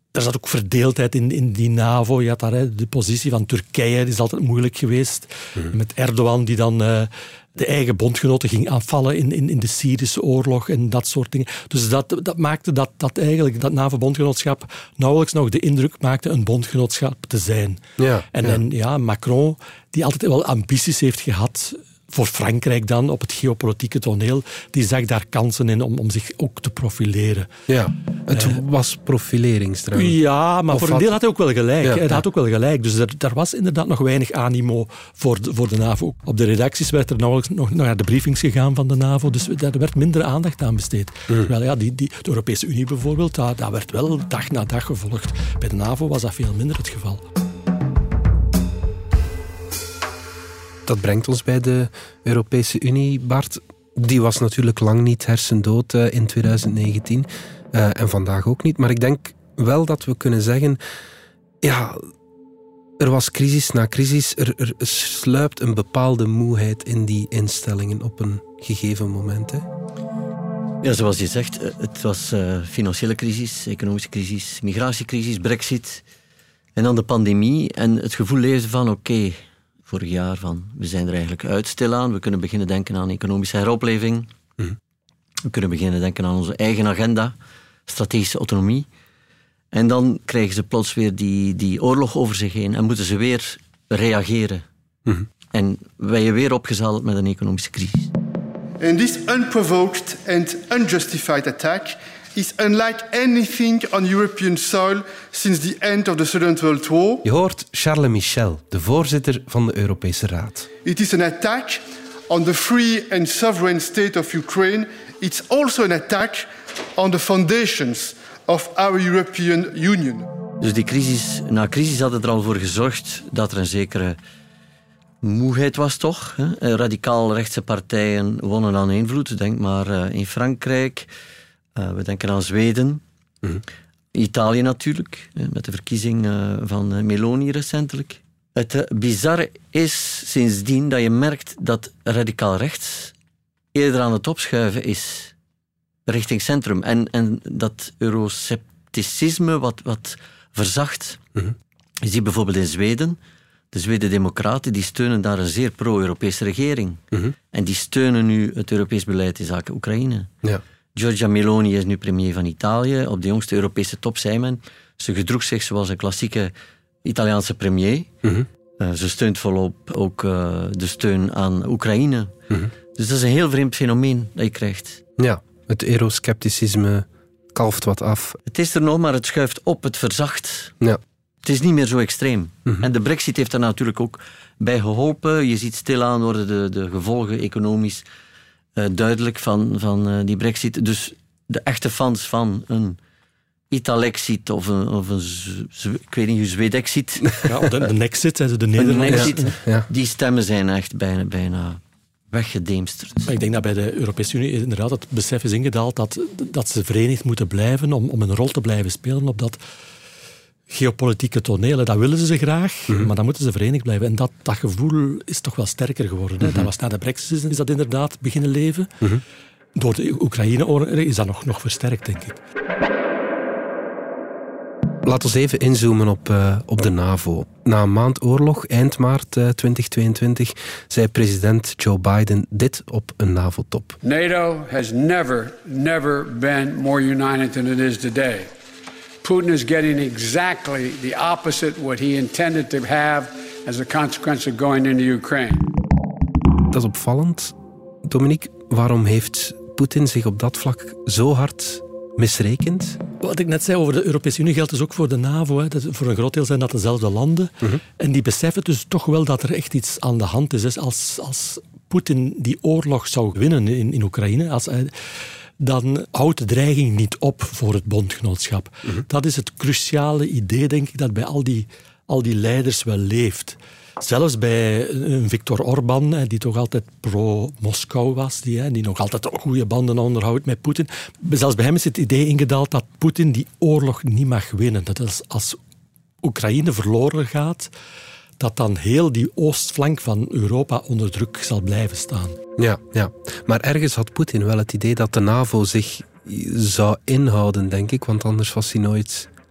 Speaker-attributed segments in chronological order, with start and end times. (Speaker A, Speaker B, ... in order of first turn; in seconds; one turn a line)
Speaker A: 0.1-17.8
Speaker B: 18.0-18.6
Speaker A: 18.3-27.5
Speaker B: 27.7-30.2
Speaker A: 28.3-28.6
Speaker A: 29.9-47.2
Speaker B: 30.7-31.1
Speaker B: 31.8-32.2
Speaker B: 50.9-60.8
Speaker B: 61.6-62.1
Speaker B: 63.0-69.7
Speaker C: 70.8-76.0
Speaker C: 76.8-84.3
Speaker C: 85.4-87.3
Speaker C: 87.9-88.9
Speaker C: 89.7-94.6
Speaker C: 95.5-98.1
Speaker D: 98.8-107.2
Speaker B: 107.2-110.7
Speaker D: 110.8-120.3
Speaker C: 120.6-124.2
Speaker C: 125.2-131.1
Speaker C: 131.8-133.0
Speaker C: 134.1-143.1
Speaker C: 143.7-145.3
Speaker C: 146.1-151.2
Speaker C: 152.0-153.2
Speaker C: 153.7-157.0
Speaker C: 157.5-160.3
Speaker C: 160.9-166.5
Speaker C: 167.0-168.1
Speaker C: 168.8-172.3
Speaker C: 172.9-175.0
Speaker B: 175.2-178.4
Speaker C: 178.5-180.7
Speaker C: 181.4-188.0
Speaker C: 188.8-193.0
Speaker C: 193.7-197.4
Speaker A: 197.4-199.5
Speaker C: 198.8-201.8
Speaker B: 199.1-199.9
Speaker C: 202.3-203.3
Speaker A: 203.2-209.6
Speaker A: 210.7-218.9
Speaker A: 219.8-222.4
Speaker B: 225.0-234.0
Speaker E: 234.0-238.5
Speaker E: 239.2-245.7
Speaker B: 246.7-253.0
Speaker A: 253.2-285.6
Speaker A: 286.2-287.7
Speaker A: 288.4-292.4
Speaker B: 292.6-299.3